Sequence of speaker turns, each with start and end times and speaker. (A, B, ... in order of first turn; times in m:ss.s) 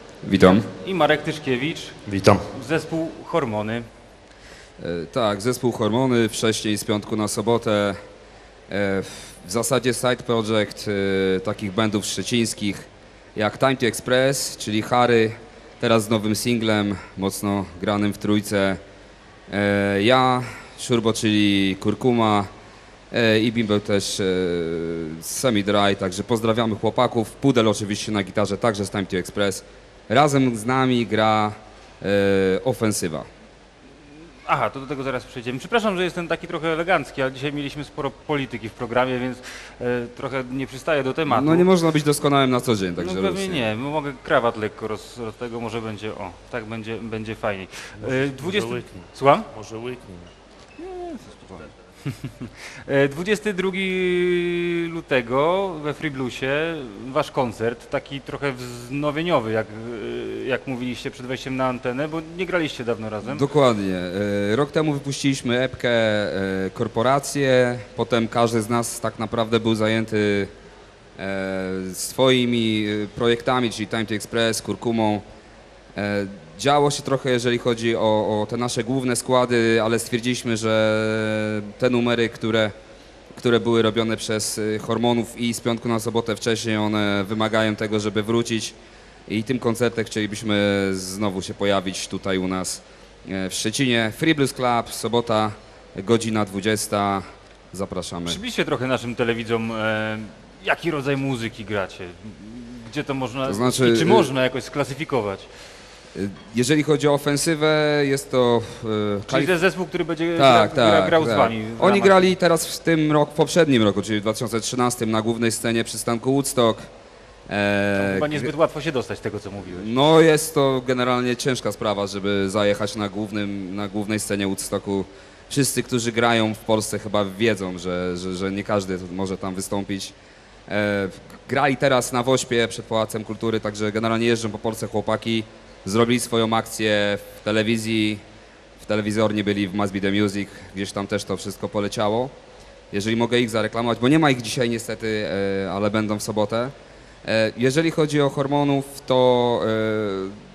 0:00.2-0:00.7 A
0:00.4-0:02.0 B
0:02.1-0:02.5 C
0:02.5-0:03.9 B
0:04.8-0:08.0 A
0:08.7-0:18.8 A
0:19.5-0:22.5 A
0:23.1-0:33.3 A
0:34.5-0:41.7 B
0:41.3-0:43.7 A
0:43.0-0:49.5 B
0:48.0-0:50.3 C
0:50.8-0:51.4 B
0:52.0-1:03.5 B
1:03.2-1:10.5 A
1:11.2-1:15.2 A
1:16.0-1:22.7 A
1:23.4-1:28.8 A
1:29.3-1:38.4 A
1:38.3-1:45.5 B
1:43.4-1:44.3 A
1:46.2-1:49.5 A
1:49.3-1:52.3 B
1:50.4-1:56.9 A
1:57.5-1:58.5 A
1:58.0-1:59.8 B
1:59.7-2:10.1 A
2:10.7-2:18.2 A
2:18.8-2:22.3 A
2:22.9-2:26.7 A
2:27.2-2:30.4 A